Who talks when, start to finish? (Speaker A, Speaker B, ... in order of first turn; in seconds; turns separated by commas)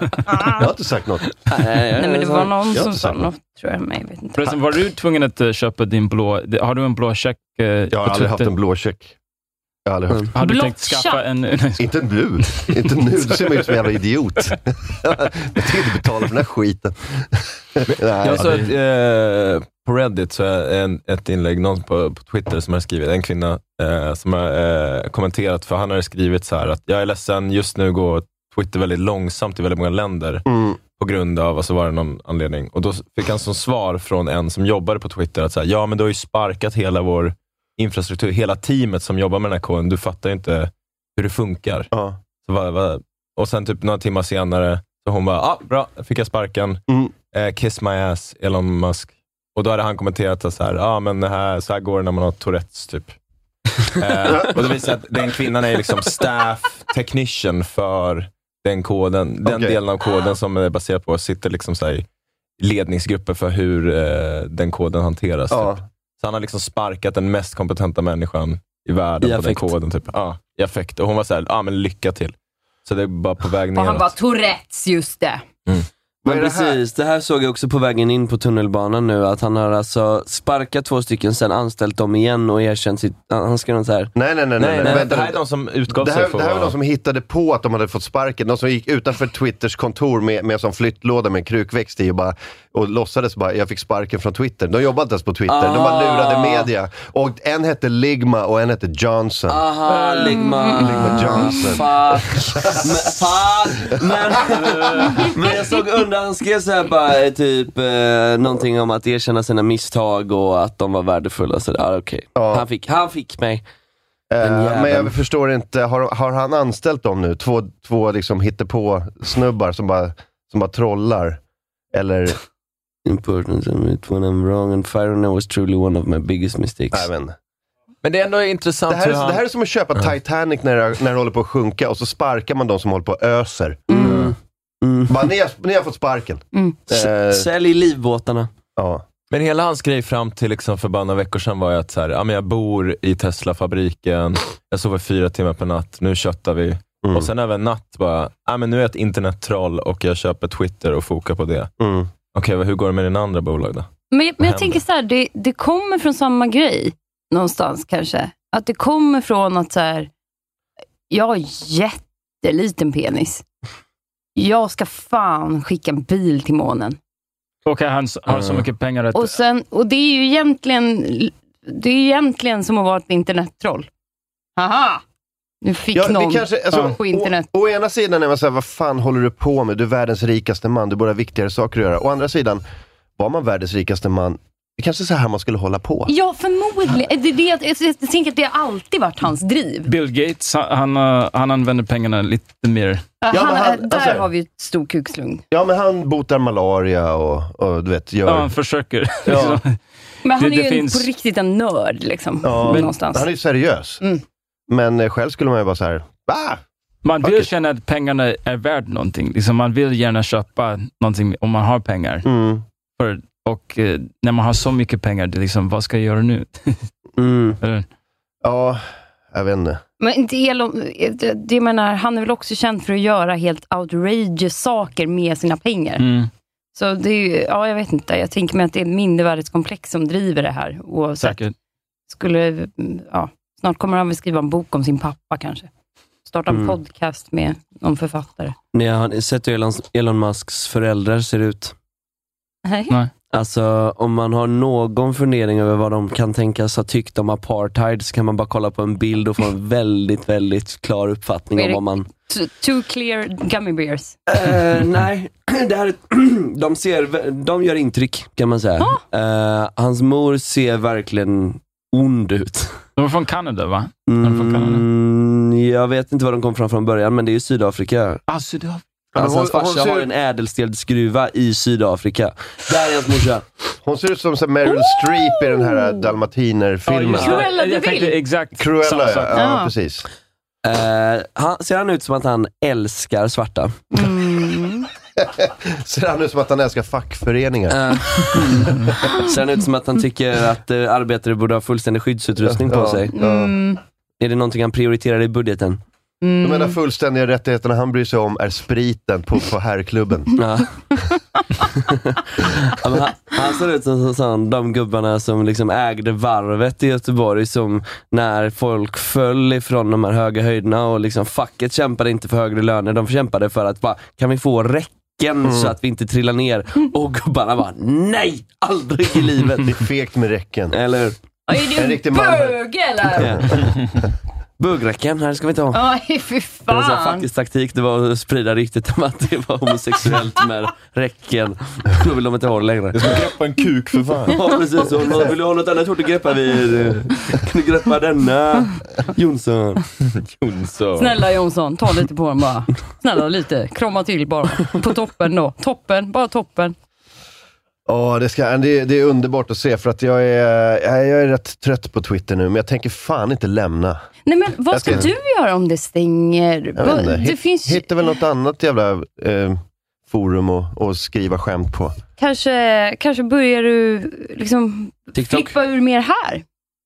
Speaker A: 0.3-0.6, Speaker B: 0.5-1.4, Speaker C: 1.5-2.5, Speaker A: 1.9-4.5, Speaker B: 2.7-3.3, Speaker D: 4.3-8.5, Speaker B: 7.9-9.2, Speaker B: 9.8-10.3, Speaker D: 10.3-11.9, Speaker A: 10.4-11.2, Speaker B: 11.8-18.6, Speaker E: 17.9-41.9, Speaker B: 30.5-30.8, Speaker B: 41.9-42.2, Speaker E: 42.4-53.1, Speaker E: 53.9-62.0, Speaker B: 54.3-54.5, Speaker B: 59.4-59.8, Speaker E: 62.6-72.3, Speaker B: 65.5-65.8, Speaker C: 69.2-69.7, Speaker E: 72.8-74.1, Speaker A: 73.7-75.4, Speaker B: 76.2-76.8, Speaker C: 76.2-84.1, Speaker B: 84.1-85.4, Speaker E: 84.6-86.7, Speaker C: 84.8-85.1, Speaker B: 85.9-99.7, Speaker C: 95.5-96.7, Speaker C: 99.5-113.6, Speaker A: 100.1-101.6, Speaker B: 100.7-102.9, Speaker B: 103.9-105.1, Speaker B: 112.3-112.6, Speaker B: 114.3-121.4, Speaker C: 114.4-115.1, Speaker B: 121.9-122.4, Speaker C: 123.0-127.0, Speaker B: 126.9-127.3, Speaker E: 128.0-129.4, Speaker B: 128.9-133.9, Speaker A: 133.9-134.2, Speaker C: 134.0-134.3, Speaker E: 134.0-134.3, Speaker C: 134.8-135.2, Speaker B: 135.1-137.5, Speaker C: 136.9-138.5, Speaker B: 138.8-139.0, Speaker E: 139.3-151.7, Speaker B: 147.0-147.3, Speaker B: 151.8-152.1, Speaker E: 152.3-153.9, Speaker A: 154.1-160.1, Speaker E: 154.4-154.8, Speaker A: 161.1-163.4, Speaker A: 164.3-167.0, Speaker D: 167.7-169.4, Speaker A: 169.1-173.9, Speaker A: 174.6-175.0, Speaker A: 175.6-177.4, Speaker B: 175.9-182.6, Speaker B: 183.2-186.1, Speaker A: 186.1-189.9, Speaker D: 189.8-193.0, Speaker A: 193.2-195.4, Speaker B: 193.3-194.3, Speaker B: 195.5-198.5, Speaker D: 198.2-199.8, Speaker B: 199.2-199.6, Speaker A: 200.2-203.3, Speaker D: 200.4-201.1, Speaker B: 202.4-204.0, Speaker B: 204.7-206.6, Speaker D: 207.0-212.3, Speaker B: 207.2-207.5, Speaker B: 212.2-212.6, Speaker D: 213.0-216.8, Speaker C: 217.2-217.6, Speaker D: 217.6-217.8, Speaker B: 218.4-219.8, Speaker A: 220.0-226.0, Speaker D: 226.0-226.3, Speaker A: 226.7-231.4, Speaker D: 231.2-231.5, Speaker A: 232.1-235.7, Speaker A: 236.2-238.5, Speaker C: 236.5-236.8, Speaker C: 238.7-241.7, Speaker A: 242.6-242.9, Speaker C: 243.3-252.1, Speaker A: 251.6-254.1, Speaker C: 254.3-262.8, Speaker D: 263.0-264.9, Speaker C: 264.1-268.2, Speaker D: 268.3-268.8, Speaker B: 269.1-270.1, Speaker C: 269.1-273.4, Speaker B: 273.8-277.4, Speaker A: 274.7-275.8, Speaker D: 276.9-279.4, Speaker A: 277.1-278.1, Speaker B: 278.6-280.1, Speaker A: 279.3-279.7, Speaker C: 280.6-283.8, Speaker A: 283.9-284.9, Speaker B: 285.2-288.4, Speaker C: 287.7-293.1, Speaker B: 292.4-293.5, Speaker A: 293.1-293.8, Speaker C: 294.2-295.8, Speaker A: 296.2-296.8, Speaker B: 296.4-300.4, Speaker C: 300.4-300.7, Speaker C: 301.9-319.8, Speaker B: 315.4-315.7, Speaker B: 319.6-320.8, Speaker C: 320.7-321.1, Speaker A: 321.5-323.6, Speaker B: 321.6-322.6, Speaker C: 323.1-323.7, Speaker B: 323.2-323.6, Speaker C: 324.6-325.8, Speaker A: 325.7-327.2, Speaker C: 326.7-333.2, Speaker E: 332.9-334.4, Speaker C: 334.3-339.9, Speaker E: 340.0-341.2, Speaker A: 340.9-346.7, Speaker B: 347.9-354.0, Speaker A: 354.2-357.9, Speaker B: 354.7-355.1, Speaker B: 356.8-362.0, Speaker A: 362.2-366.4, Speaker C: 365.1-365.5